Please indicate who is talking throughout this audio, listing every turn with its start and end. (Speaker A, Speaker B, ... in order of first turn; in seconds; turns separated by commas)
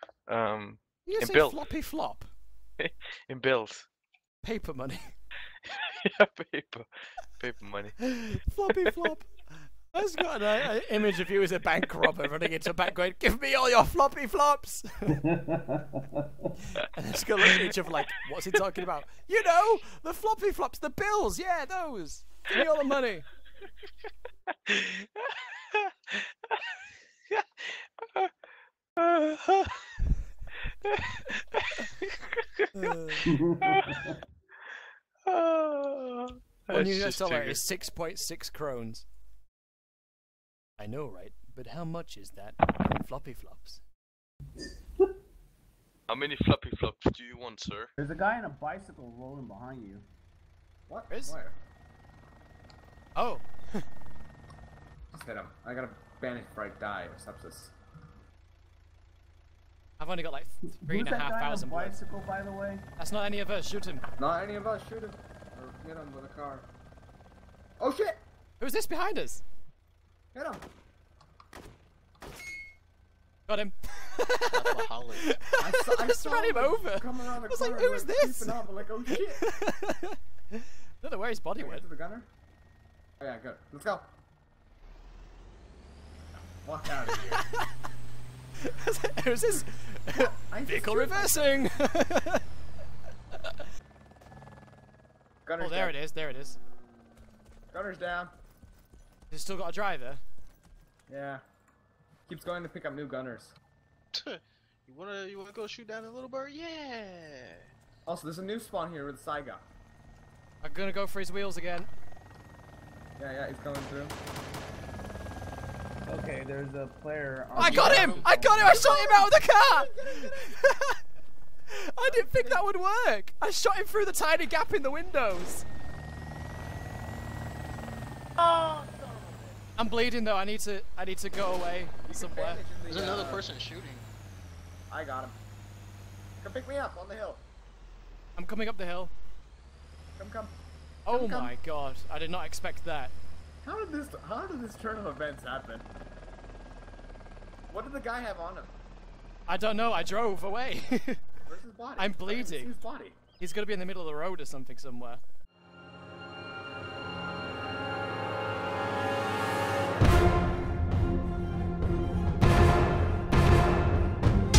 Speaker A: 0.3-1.6, Speaker B: 1.1-2.3, Speaker A: 2.8-3.9, Speaker B: 4.4-5.1, Speaker A: 5.7-8.1, Speaker B: 8.0-15.2, Speaker C: 15.3-16.2, Speaker B: 16.8-23.3, Speaker A: 24.7-25.2, Speaker A: 29.0-29.8, Speaker A: 30.9-32.2, Speaker B: 32.7-33.3, Speaker C: 33.3-34.2, Speaker A: 33.7-34.0, Speaker A: 35.3-37.6, Speaker B: 36.7-39.0, Speaker B: 40.8-43.8, Speaker A: 46.1-47.9, Speaker C: 48.0-50.0, Speaker D: 50.9-51.5, Speaker B: 51.1-51.4, Speaker B: 53.2-53.9, Speaker D: 55.1-57.7, Speaker B: 60.0-62.0, Speaker C: 60.7-62.9, Speaker B: 63.0-64.0, Speaker D: 64.2-66.7, Speaker D: 67.8-68.2, Speaker B: 68.6-69.4, Speaker D: 70.3-70.6, Speaker B: 73.5-81.8, Speaker E: 74.5-75.4, Speaker D: 75.6-79.4, Speaker D: 81.6-82.3, Speaker D: 83.2-84.1, Speaker D: 86.6-87.4, Speaker B: 87.3-87.8, Speaker B: 88.6-92.4, Speaker D: 90.4-91.5, Speaker D: 95.5-95.9, Speaker B: 95.6-96.6, Speaker D: 97.7-98.3, Speaker B: 99.3-100.2, Speaker D: 101.1-101.4, Speaker D: 102.3-103.5, Speaker E: 104.1-107.7, Speaker D: 108.1-109.6, Speaker B: 110.6-111.9, Speaker D: 113.2-114.2, Speaker C: 116.1-118.6, Speaker B: 117.6-121.0, Speaker D: 117.8-120.4, Speaker B: 121.7-125.7, Speaker D: 122.0-122.7, Speaker D: 128.4-129.6, Speaker B: 129.8-132.6, Speaker D: 132.1-133.5, Speaker E: 132.9-134.1, Speaker D: 134.9-135.3, Speaker D: 136.4-137.4, Speaker B: 138.4-139.1, Speaker D: 140.2-140.5, Speaker B: 141.1-143.1, Speaker D: 141.1-141.5, Speaker D: 143.6-145.9, Speaker D: 147.7-148.7, Speaker B: 149.5-151.2, Speaker D: 151.5-153.2, Speaker B: 152.0-152.7, Speaker B: 153.4-155.2